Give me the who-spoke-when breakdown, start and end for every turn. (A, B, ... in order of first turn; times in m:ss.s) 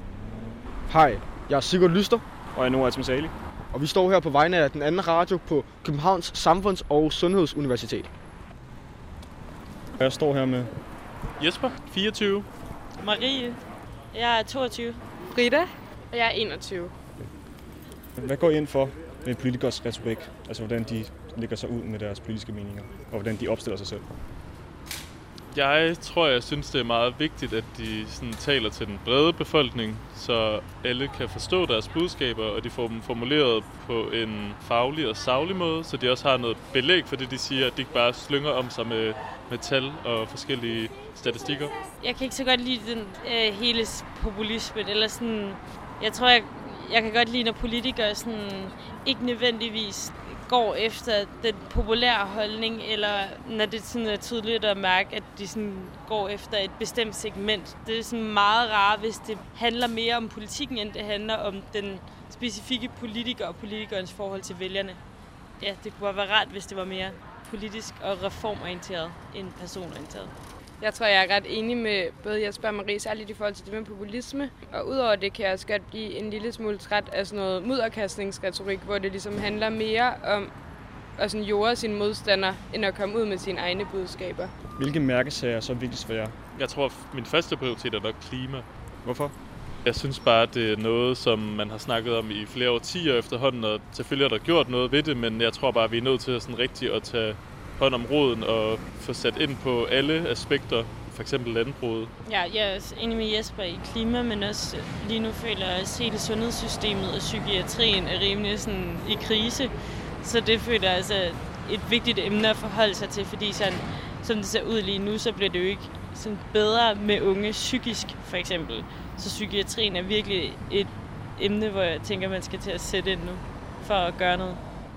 0:00.9-0:02.2 A
0:02.5-0:03.3 B
0:03.7-0:08.1 A
0:10.0-0:10.7 B
0:11.4-0:12.5 C
0:13.0-0:13.6 D
0:14.1-0:15.0 D
0:15.3-0:16.9 E
0:18.2-0:24.0 B
0:25.5-0:41.7 C
0:42.0-1:05.0 D
1:05.6-1:10.3 D
1:10.8-1:20.5 E
1:21.2-1:24.5 E
1:24.8-1:26.3 B
1:26.5-1:28.7 C
1:29.0-1:29.3 B
1:29.8-1:42.1 C
1:42.2-2:04.6 D